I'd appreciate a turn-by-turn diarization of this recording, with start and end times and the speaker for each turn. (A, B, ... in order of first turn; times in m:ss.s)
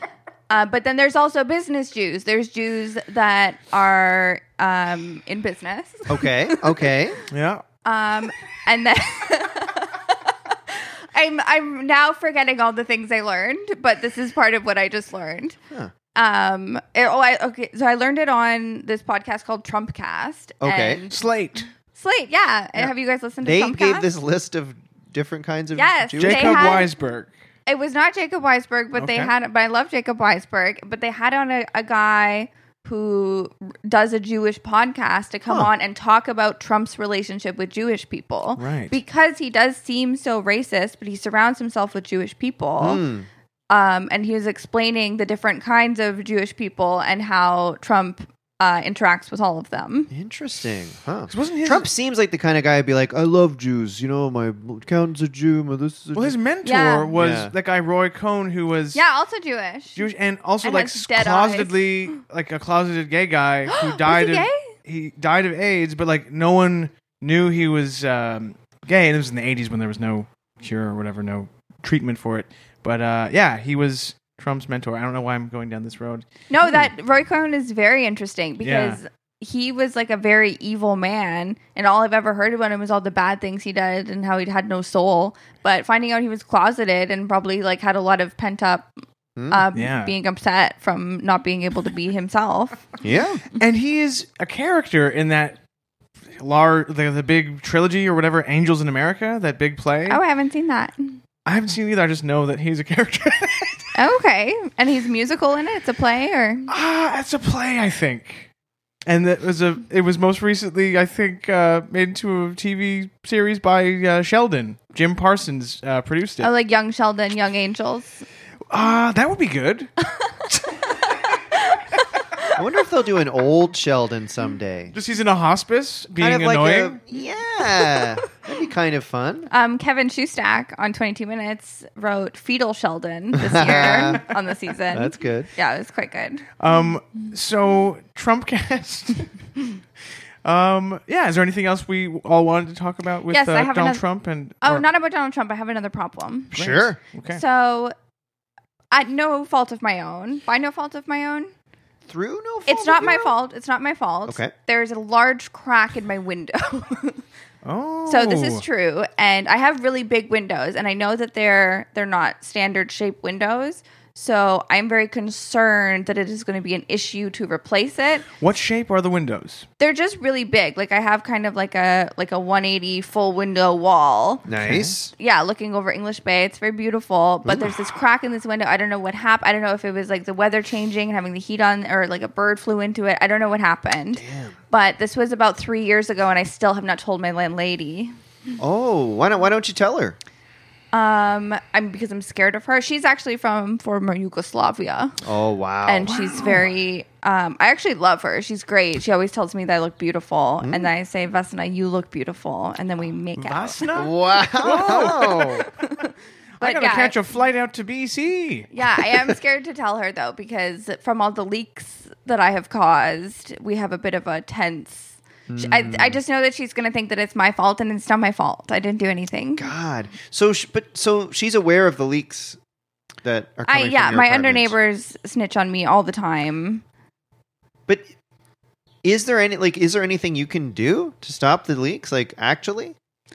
0:00.5-0:06.7 A
0:06.1-0:07.2 B
0:07.3-0:07.6 C
0:07.8-0:15.6 A
0:16.1-0:21.1 A
0:20.6-0:21.0 B
0:21.1-0:21.7 C
0:21.9-0:24.1 A
0:23.4-0:26.8 B
0:25.7-0:26.9 A
0:26.2-0:27.3 C
0:27.7-0:43.0 A
0:29.0-0:29.3 C
0:38.6-0:39.0 C
0:42.8-0:43.3 B
0:43.7-0:50.1 A
0:50.1-0:56.3 B
0:51.3-0:51.8 C
0:56.1-0:59.0 C
0:56.6-0:57.1 A
0:57.1-0:57.5 B
0:58.9-1:00.0 A
0:59.9-1:16.2 C
1:00.6-1:01.9 A
1:03.7-1:04.7 A
1:16.5-1:28.9 A
1:18.6-1:19.0 C
1:29.4-1:29.6 B
1:29.5-1:32.8 A
1:29.7-1:30.1 C
1:33.0-1:33.4 B
1:33.5-1:35.6 C
1:36.4-1:40.2 C
1:40.1-1:41.2 A
1:41.4-1:43.9 C
1:44.0-1:46.7 A
1:46.7-1:48.5 C
1:49.0-1:56.5 C
1:56.4-1:58.2 A
1:58.7-1:59.9 C
2:00.5-2:00.8 C
2:02.6-2:04.9 B
2:04.9-2:07.0 C
2:06.2-2:09.5 B
2:07.7-2:08.1 A
2:09.5-2:16.5 A
2:13.3-2:14.2 B
2:13.6-2:14.3 C
2:14.9-2:15.5 B
2:16.6-2:19.3 C
2:20.4-2:24.8 C
2:23.3-2:24.0 A
2:24.6-2:26.5 A
2:26.5-2:27.0 B
2:26.5-2:27.4 C
2:27.3-2:27.9 A
2:28.9-2:31.5 A
2:32.1-2:33.3 B
2:32.7-2:37.2 A
2:34.2-2:34.5 B
2:37.6-2:38.6 C
2:38.1-2:48.3 A
2:48.4-2:49.6 C
2:49.8-2:54.4 A
2:54.5-2:55.1 B
2:54.5-2:54.9 C
2:55.1-3:08.1 A
2:57.4-2:57.7 B
3:04.1-3:04.6 B
3:08.6-3:10.2 B
3:10.9-3:15.1 A
3:15.2-3:16.2 B
3:15.8-3:24.1 A
3:16.1-3:16.7 C
3:20.6-3:20.9 B
3:23.4-3:25.6 C
3:23.9-3:25.6 B
3:24.6-3:27.2 A
3:26.6-3:28.7 C
3:28.7-3:39.7 A
3:35.5-3:36.2 B
3:39.6-3:42.6 B
3:43.2-3:44.7 B
3:43.7-3:46.8 A
3:49.0-3:52.9 B